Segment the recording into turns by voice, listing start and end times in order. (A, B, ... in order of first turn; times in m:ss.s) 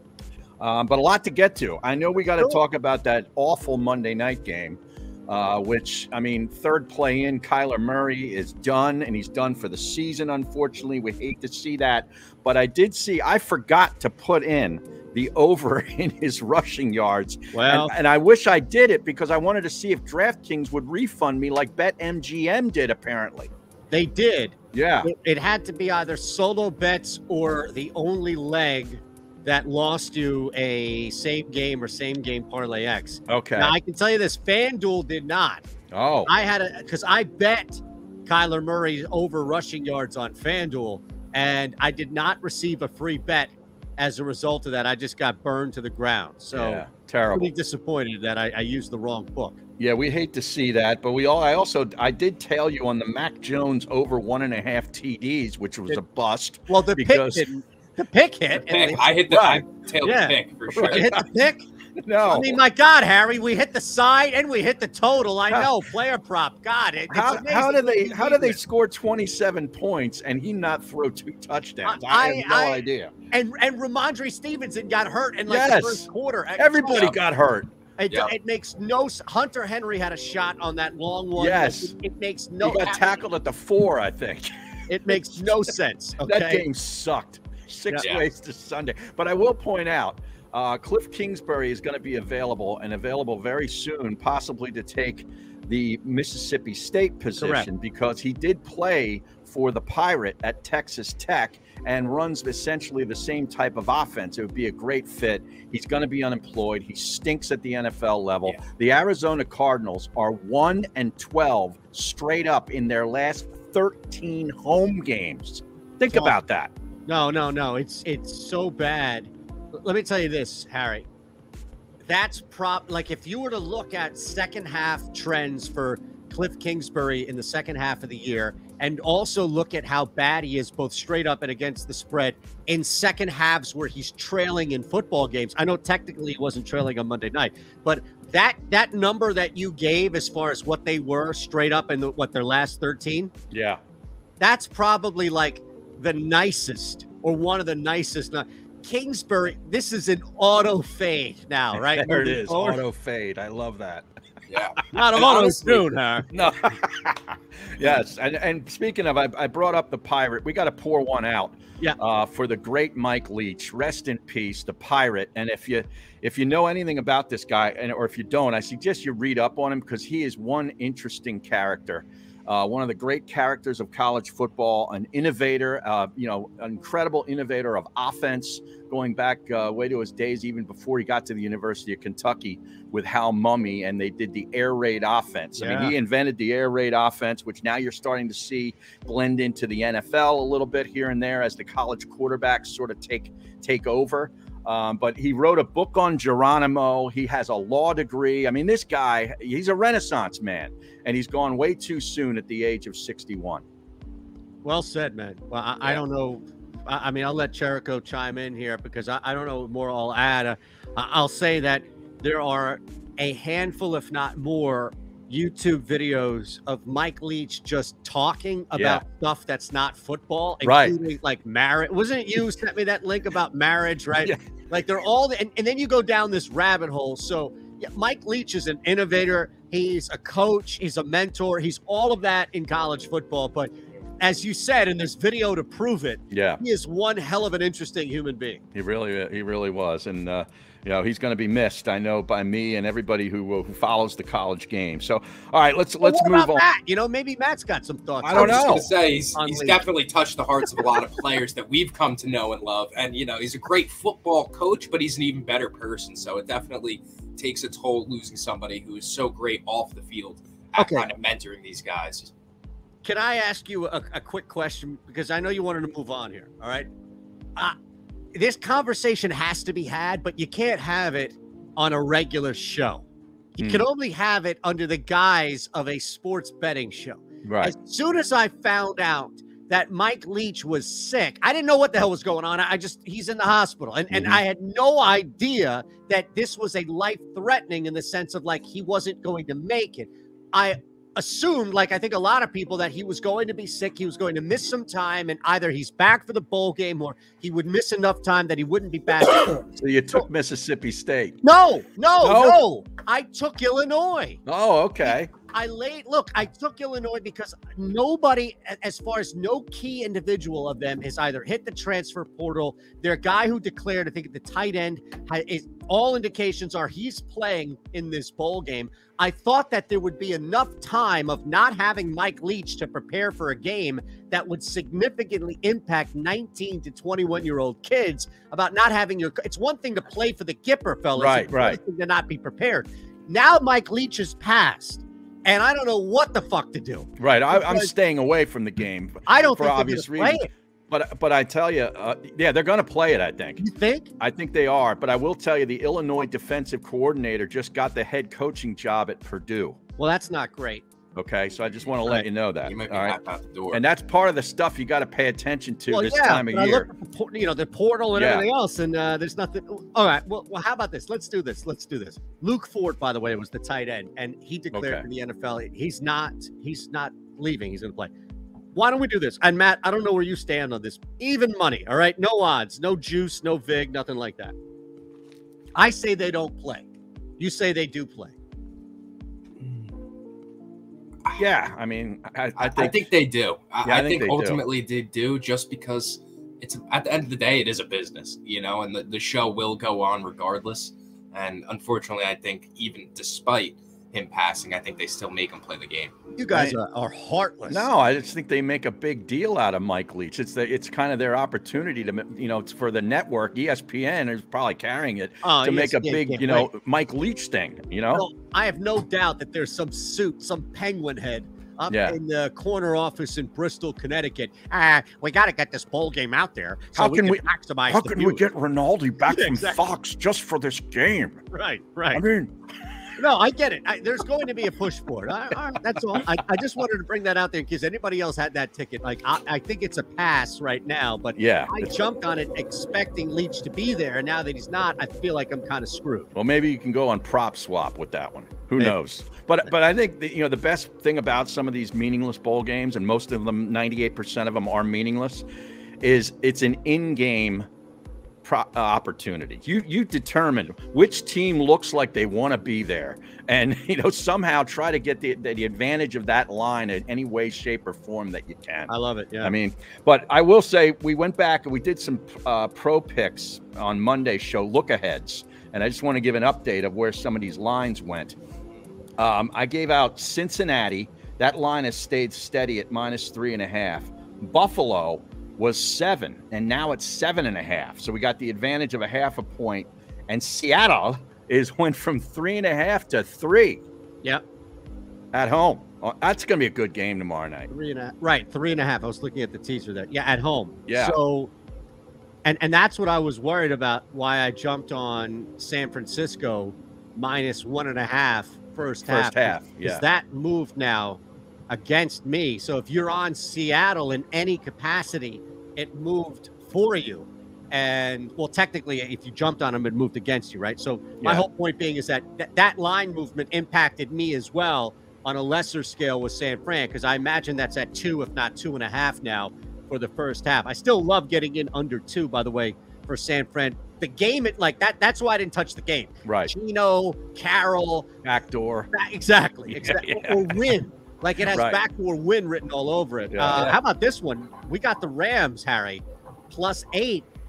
0:00.6-0:23.5 A
0:17.5-0:17.9 B
0:23.9-0:35.7 B
0:24.7-0:25.1 A
0:33.3-0:33.8 A
0:35.9-0:36.3 A
0:36.2-0:49.6 B
0:46.5-0:47.5 A
0:49.8-0:57.4 A
0:56.7-0:59.0 B
0:58.5-1:01.1 C
0:59.3-0:59.6 A
1:00.0-1:01.6 B
1:00.7-1:01.2 A
1:02.0-1:02.6 A
1:02.2-1:08.6 B
1:07.1-1:13.1 A
1:11.8-1:17.2 B
1:15.5-1:17.7 A
1:18.0-1:23.2 B
1:21.4-1:21.9 A
1:22.6-1:24.5 A
1:24.9-1:26.6 B
1:25.1-1:25.4 A
1:26.2-1:56.7 A
1:37.4-1:37.7 B
1:56.1-1:56.4 B
1:57.1-2:01.1 B
2:02.0-2:23.3 B
2:23.5-2:23.8 A
2:24.4-2:32.8 B
2:31.9-2:34.1 A
2:34.5-2:35.9 C
2:34.9-2:36.3 B
2:36.3-3:23.6 A
3:05.6-3:05.9 B
3:24.6-3:58.6 B
3:38.7-3:39.0 A
3:40.6-3:41.0 A
3:56.3-3:56.6 A
3:58.7-4:06.6 A
4:06.0-4:09.8 B
4:08.2-4:08.9 A
4:08.3-4:22.3 C
4:10.8-4:11.0 B
4:20.8-4:21.1 B
4:23.0-4:26.9 B
4:28.3-4:33.0 B
4:33.6-5:00.2 B
4:33.6-4:33.8 A
4:37.4-4:37.7 A
4:44.1-4:44.4 A
4:59.5-5:01.4 A
5:01.4-5:04.4 B
5:02.2-5:02.6 A
5:04.4-5:05.3 A
5:05.0-5:37.9 B
5:31.2-5:31.8 A
5:37.2-5:43.6 A
5:39.3-5:40.5 B
5:43.6-5:44.1 B
5:44.2-5:49.8 A
5:50.0-5:50.8 B
5:51.1-5:53.2 A
5:52.6-5:53.8 C
5:53.7-5:56.9 A
5:55.9-6:08.1 B
5:58.1-5:58.5 A
6:04.7-6:05.0 A
6:08.7-6:14.5 B
6:15.7-6:18.3 B
6:19.6-6:19.9 C
6:21.4-6:23.1 A
6:22.6-6:36.2 C
6:23.8-6:24.6 A
6:36.4-6:37.9 B
6:37.7-6:48.2 A
6:45.4-6:46.7 B
6:48.1-6:58.4 B
6:51.9-6:52.2 A
6:57.0-7:01.5 A
6:59.3-6:59.8 B
7:01.5-7:02.2 B
7:02.1-7:03.1 A
7:03.2-7:16.3 B
7:11.4-7:11.9 A
7:16.3-7:25.4 A
7:26.0-7:27.7 A
7:28.4-7:48.4 A
7:38.9-7:39.5 B
7:49.2-8:03.8 A
8:05.3-8:07.7 A
8:07.7-8:11.5 B
8:10.9-8:11.2 A
8:12.4-8:48.1 B
8:19.0-8:20.0 A
8:31.2-8:31.5 A
8:46.2-8:46.5 A
8:48.2-8:48.9 A
8:48.9-8:57.2 B
8:49.7-8:50.8 A
8:51.5-8:51.8 A
8:53.3-8:53.7 A